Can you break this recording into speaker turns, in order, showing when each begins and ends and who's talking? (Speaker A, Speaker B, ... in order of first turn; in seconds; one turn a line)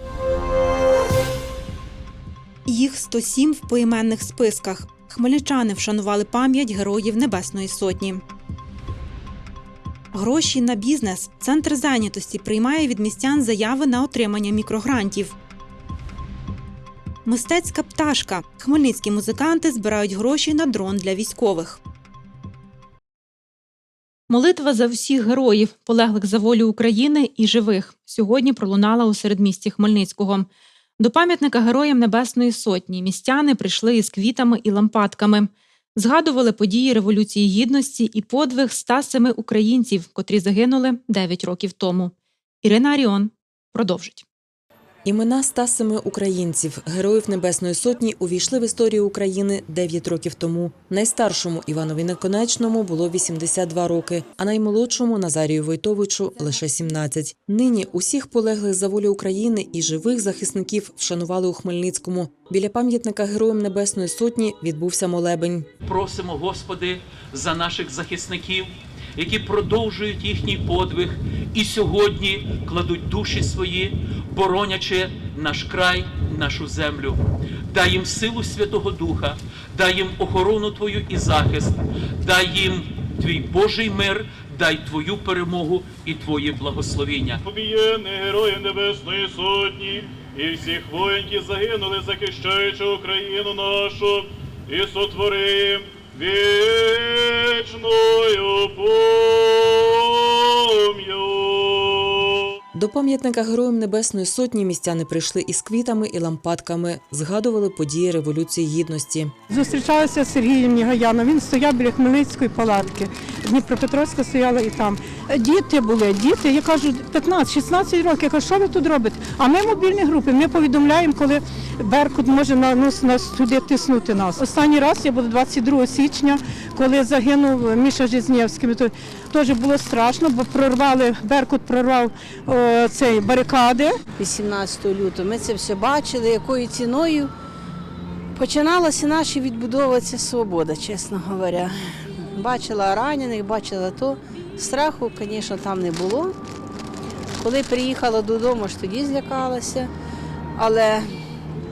Speaker A: 2.7-8.2
Speaker A: 10.1-15.3
Speaker A: 17.2-21.8
Speaker A: 24.3-30.5
Speaker A: 31.0-44.2
Speaker B: 45.0-65.7
Speaker C: 65.9-77.2
Speaker C: 77.7-87.3
Speaker D: 87.5-99.8
Speaker D: 100.9-101.8
Speaker B: 102.7-109.3
Speaker E: 109.5-134.0
Speaker F: 134.2-137.3
Speaker F: 138.3-146.3
Speaker F: 147.4-149.9
Speaker F: 150.6-151.1